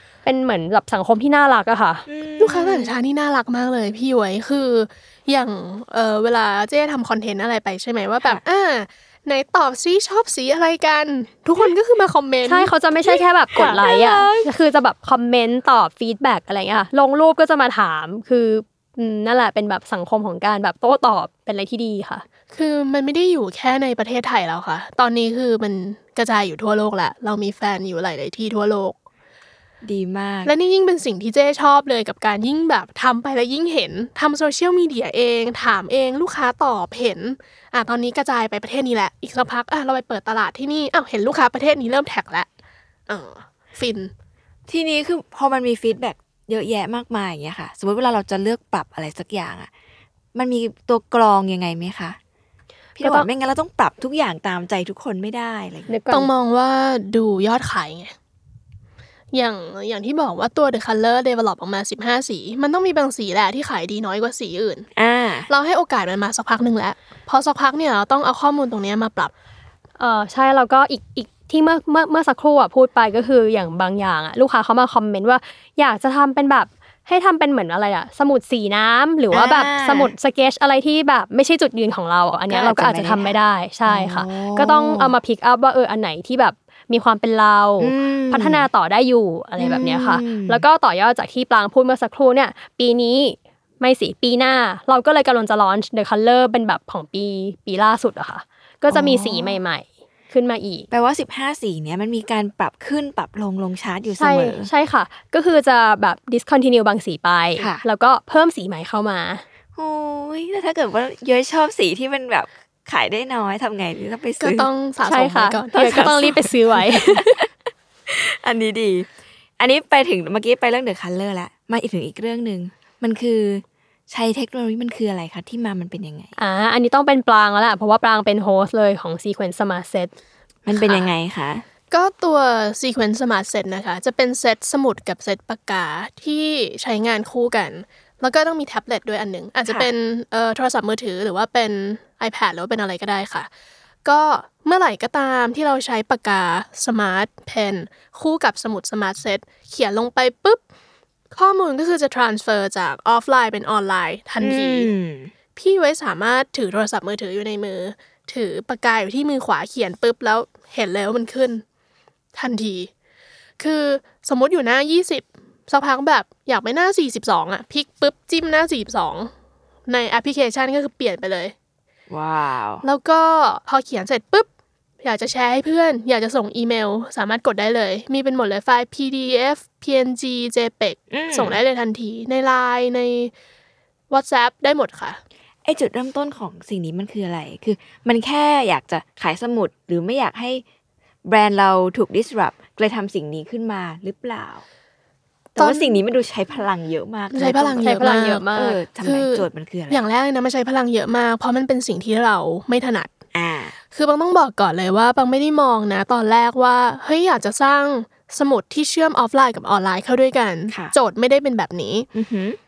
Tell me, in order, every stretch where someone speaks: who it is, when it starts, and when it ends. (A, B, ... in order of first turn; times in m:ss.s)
0:00.2-0:02.0 A
0:02.1-0:02.9 B
0:02.4-0:12.7 C
0:12.4-0:22.2 A
0:13.5-0:14.5 B
0:13.5-0:14.3 C
0:22.5-0:29.0 C
0:29.8-0:30.5 B
0:30.4-0:42.5 C
0:43.1-0:44.1 C
0:44.7-0:49.7 B
0:50.3-0:52.2 B
0:53.0-0:55.9 B
0:53.0-0:53.3 A
0:55.9-0:56.3 A
0:56.1-0:58.1 C
0:59.3-1:04.9 C
1:05.0-1:05.5 B
1:05.5-1:09.3 C
1:10.0-1:40.9 A
1:19.3-1:20.1 B
1:22.5-1:25.2 B
1:27.8-1:28.7 B
1:29.6-1:30.6 B
1:38.9-1:39.6 B
1:40.9-1:44.7 B
1:44.2-1:49.4 A
1:47.6-1:47.8 B
1:49.8-1:54.7 B
1:54.4-1:56.5 C
1:55.0-1:57.2 A
1:55.7-1:56.4 B
1:56.9-1:57.5 B
1:58.1-2:06.3 B
2:06.4-2:10.1 A
2:10.6-2:11.6 B
2:10.7-2:11.1 C
2:11.9-2:23.5 C
2:24.0-2:30.6 C
2:31.3-2:34.9 C
2:34.4-2:35.3 B
2:35.6-2:41.6 C
2:42.3-2:42.9 C
2:43.6-2:49.3 C
2:49.9-2:51.5 C
2:52.1-2:52.8 B
2:52.8-2:54.5 C
2:55.0-3:03.3 C
3:01.1-3:01.6 B
3:04.1-3:05.2 C
3:05.6-3:10.6 B
3:11.2-3:14.6 B
3:15.5-3:20.0 B
3:15.6-3:16.0 C
3:17.3-3:23.1 C
3:17.8-3:18.8 A
3:23.3-3:23.7 B
3:23.9-3:32.1 C
3:32.1-3:32.6 B